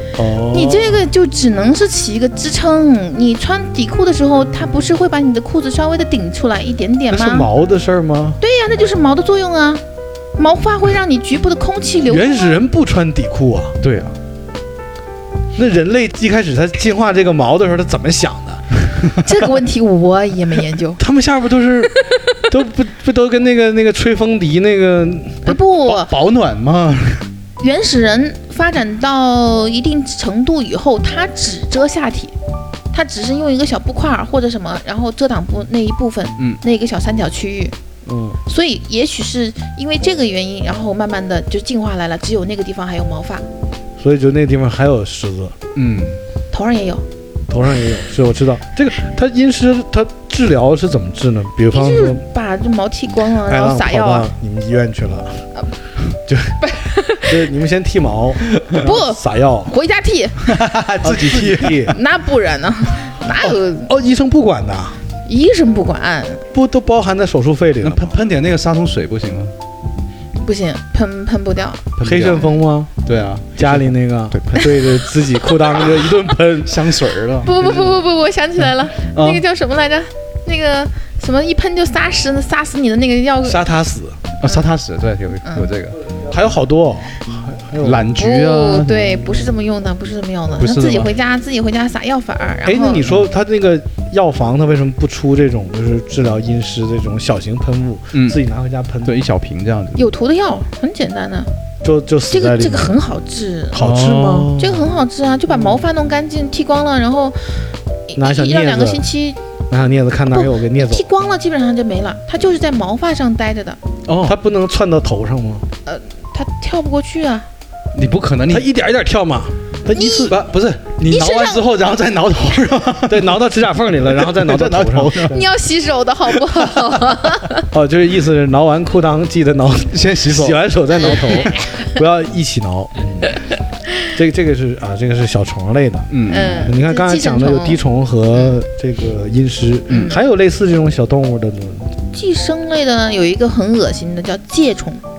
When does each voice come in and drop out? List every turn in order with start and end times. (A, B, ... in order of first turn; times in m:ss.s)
0:00.2-0:01.1 A
0:00.5-0:07.5 B
0:07.1-0:08.4 A
0:08.4-0:09.8 B
0:10.4-0:12.5 B
0:12.1-0:13.8 A
0:13.8-0:14.2 C
0:15.6-0:18.7 A
0:19.2-0:21.0 B
0:21.0-0:25.6 A
0:21.9-0:22.5 B
0:25.4-0:26.1 B
0:25.8-0:27.3 C
0:27.6-0:32.3 B
0:32.9-0:37.8 B
0:38.0-0:38.4 A
0:38.5-0:43.4 B
0:44.0-0:45.6 A
0:45.8-0:46.2 C
0:46.5-0:47.0 B
0:47.5-0:52.2 A
0:51.7-0:54.3 B
0:53.4-0:55.4 A
0:56.3-0:56.6 A
0:56.6-0:57.5 B
0:57.3-0:59.7 A
0:58.8-1:00.5 B
1:00.4-1:01.9 C
1:01.0-1:02.0 A
1:01.9-1:03.9 B
1:03.4-1:05.0 A
1:05.3-1:06.4 B
1:06.5-1:08.2 A
1:07.8-1:09.5 C
1:10.4-1:12.6 B
1:12.0-1:12.4 C
1:12.0-1:12.9 A
1:13.0-1:15.0 C
1:13.6-1:17.0 A
1:15.6-1:15.9 B
1:16.6-1:18.0 C
1:17.4-1:23.7 B
1:19.0-1:19.4 C
1:23.4-1:24.2 A
1:24.4-1:26.0 C
1:24.4-1:24.8 B
1:25.4-1:25.7 B
1:26.1-1:28.1 A
1:27.8-1:29.4 C
1:28.1-1:33.1 B
1:30.6-1:31.1 C
1:32.6-1:39.2 A
1:38.1-1:38.4 C
1:39.0-1:40.0 C
1:40.0-1:41.5 B
1:41.8-1:43.0 A
1:42.3-1:47.5 B
1:43.7-1:44.9 A
1:43.8-1:44.6 C
1:45.5-1:45.8 A
1:48.1-1:49.4 B
1:48.2-1:49.0 A
1:49.7-1:51.1 A
1:50.3-1:53.8 B
1:54.1-1:54.4 C
1:54.2-1:55.6 A
1:55.8-1:57.5 B
1:57.9-1:58.7 C
1:58.5-2:00.4 A
1:59.9-2:00.3 B
2:00.3-2:03.3 C
2:01.1-2:01.6 B
2:03.1-2:05.5 A
2:04.1-2:05.4 C
2:05.2-2:07.7 B
2:06.4-2:06.9 C
2:07.7-2:13.4 A
2:09.9-2:11.6 C
2:11.1-2:11.5 B
2:14.1-2:21.9 A
2:16.1-2:16.7 C
2:16.3-2:17.8 B
2:19.9-2:20.2 C
2:19.9-2:20.2 B
2:22.1-2:25.0 B